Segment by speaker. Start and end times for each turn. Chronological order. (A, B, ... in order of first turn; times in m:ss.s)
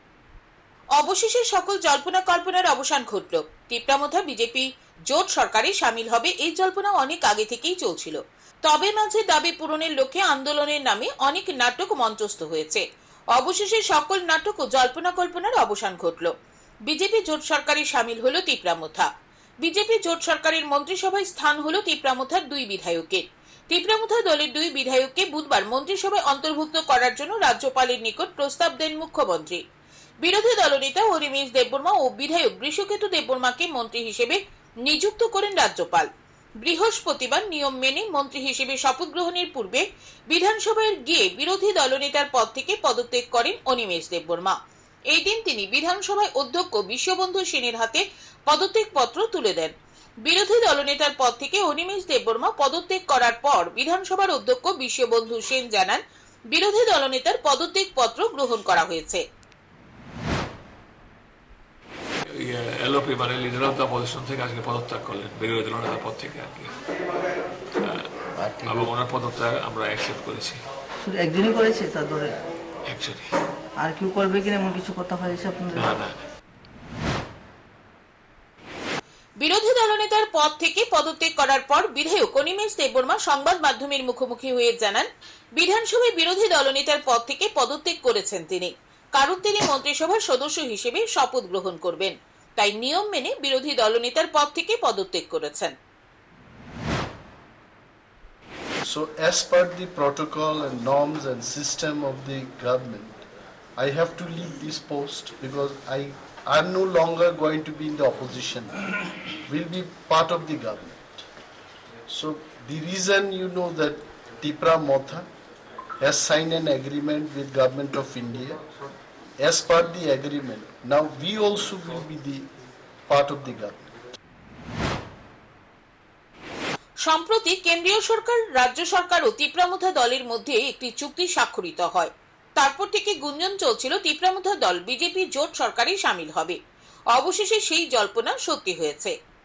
0:01.0-0:16.3 A
0:16.9-0:19.1 A
0:19.6-0:29.6 A
0:30.2-0:36.1 A
0:36.6-0:44.6 A
0:45.1-0:49.7 A
0:50.2-0:59.2 A
1:02.4-1:06.7 B
1:07.8-1:08.1 B
1:08.4-1:08.9 C
1:08.6-1:10.6 B
1:11.0-1:12.4 C
1:12.9-1:13.3 B
1:13.8-1:15.9 C
1:15.8-1:16.2 B
1:19.4-1:35.7 A
1:38.8-1:43.2 D
1:43.8-1:48.8 D
1:49.4-1:51.1 D
1:52.1-1:55.3 D
1:56.0-1:58.6 D
1:59.4-2:02.5 D
2:03.1-2:03.8 D
2:07.0-2:16.6 A
2:17.1-2:19.1 A